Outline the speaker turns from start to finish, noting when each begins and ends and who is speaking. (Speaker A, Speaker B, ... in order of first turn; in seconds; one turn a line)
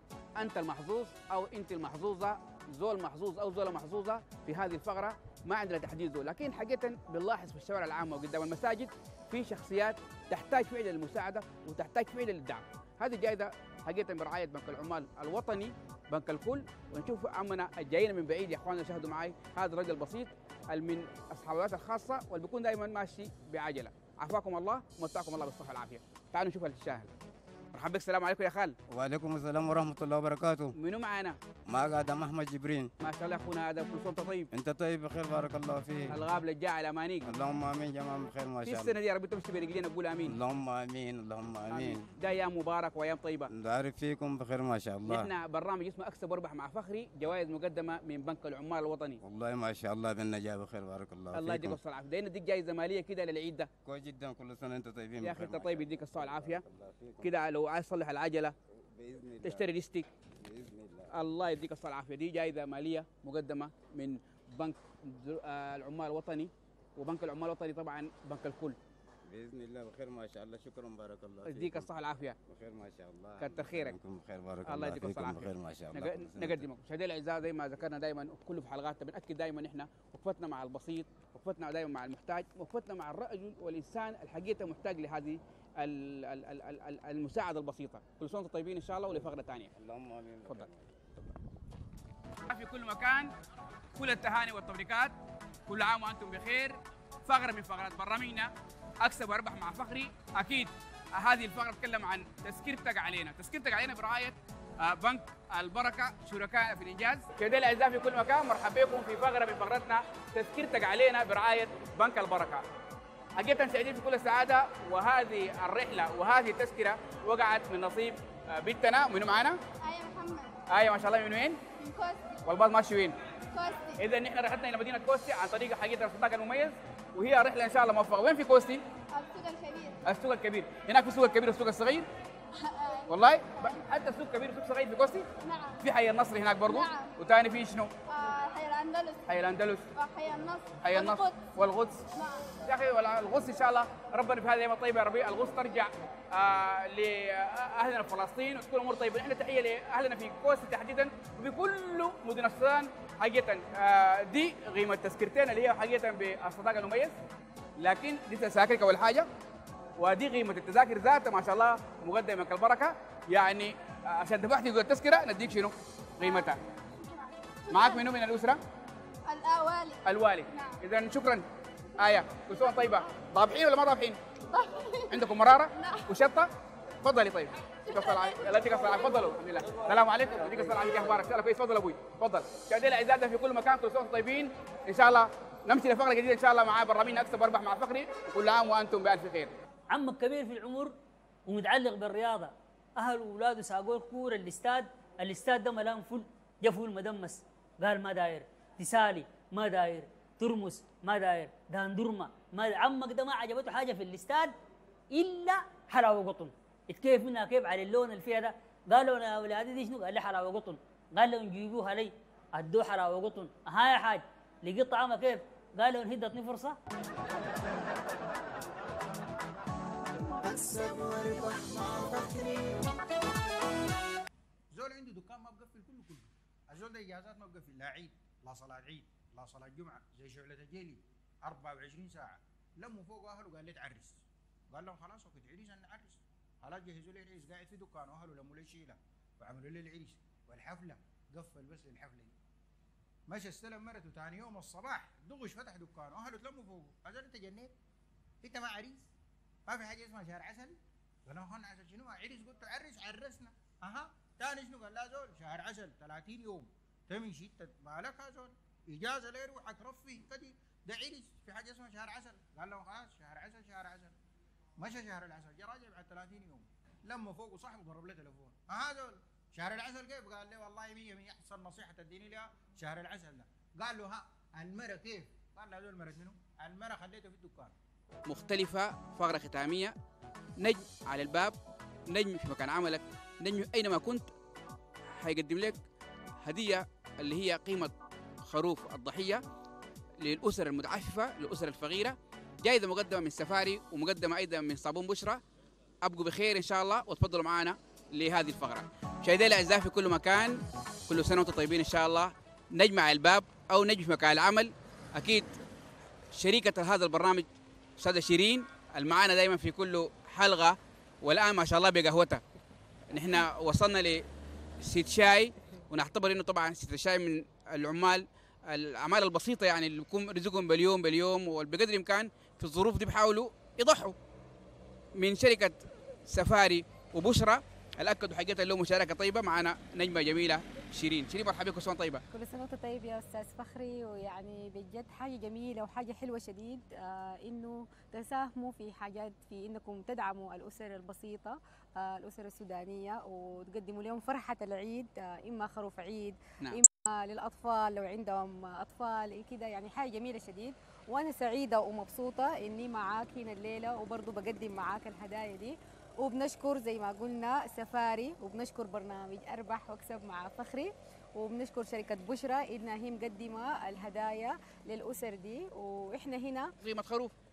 Speaker A: 0.4-27.1
Speaker A: 27.7-28.8
Speaker B: 28.9-30.8
Speaker A: 30.8-31.4
Speaker B: 31.7-32.9
Speaker A: 33.0-34.5
Speaker B: 34.5-36.2
Speaker A: 36.1-37.3
Speaker B: 37.2-39.0
Speaker A: 38.6-40.4
Speaker B: 40.2-42.0
Speaker A: 41.7-43.5
Speaker B: 43.5-45.3
Speaker A: 45.1-49.2
Speaker B: 49.2-51.8
Speaker A: 51.3-53.7
Speaker B: 53.8-57.3
Speaker A: 55.2-56.6
Speaker A: 57.2-58.5
Speaker B: 58.7-59.7
Speaker A: 59.4-60.1
Speaker B: 60.4-61.1
Speaker A: 61.1-68.8
Speaker B: 69.2-71.9
Speaker A: 71.5-72.4
Speaker B: 72.5-76.7
Speaker A: 73.4-74.0
Speaker A: 74.7-89.7
Speaker B: 89.2-91.2
Speaker A: 92.5-93.3
Speaker A: 94.0-95.1
Speaker A: 95.7-98.5
Speaker A: 99.0-112.6
Speaker A: 113.4-119.6
Speaker C: 119.8-120.5
Speaker A: 120.7-121.6
Speaker C: 121.8-122.3
Speaker A: 122.4-123.2
Speaker C: 123.5-124.0
Speaker A: 124.0-128.8
Speaker C: 129.1-130.0
Speaker A: 130.0-132.1
Speaker C: 132.6-133.1
Speaker A: 133.1-135.3
Speaker C: 135.4-135.8
Speaker A: 135.8-137.9
Speaker C: 136.7-137.1
Speaker C: 138.1-139.3
Speaker A: 139.3-139.9
Speaker C: 140.0-141.4
Speaker A: 140.8-142.1
Speaker C: 142.2-142.4
Speaker A: 142.7-157.2
Speaker A: 157.8-159.3
Speaker A: 160.0-166.6
Speaker A: 167.7-168.6
Speaker C: 167.7-168.0
Speaker C: 169.3-170.0
Speaker A: 170.0-171.4
Speaker A: 172.0-174.2
Speaker C: 174.5-174.9
Speaker A: 175.1-176.5
Speaker A: 177.0-189.5
Speaker D: 189.9-190.9
Speaker D: 191.5-204.5
Speaker D: 205.1-216.8
Speaker E: 220.7-222.4
Speaker E: 224.7-242.3
Speaker E: 243.3-247.7
Speaker E: 248.4-249.1
Speaker E: 249.7-264.2
Speaker E: 264.8-277.7
Speaker A: 278.3-279.9
Speaker A: 280.6-281.6
Speaker A: 282.1-284.3
Speaker A: 285.2-285.8
Speaker A: 286.4-289.4
Speaker A: 290.2-295.4
Speaker A: 296.0-305.5
Speaker A: 306.3-307.5
Speaker A: 308.0-312.4
Speaker A: 313.1-314.2
Speaker A: 314.8-324.1
Speaker A: 325.2-332.2
Speaker F: 332.3-366.7
Speaker A: 366.8-367.4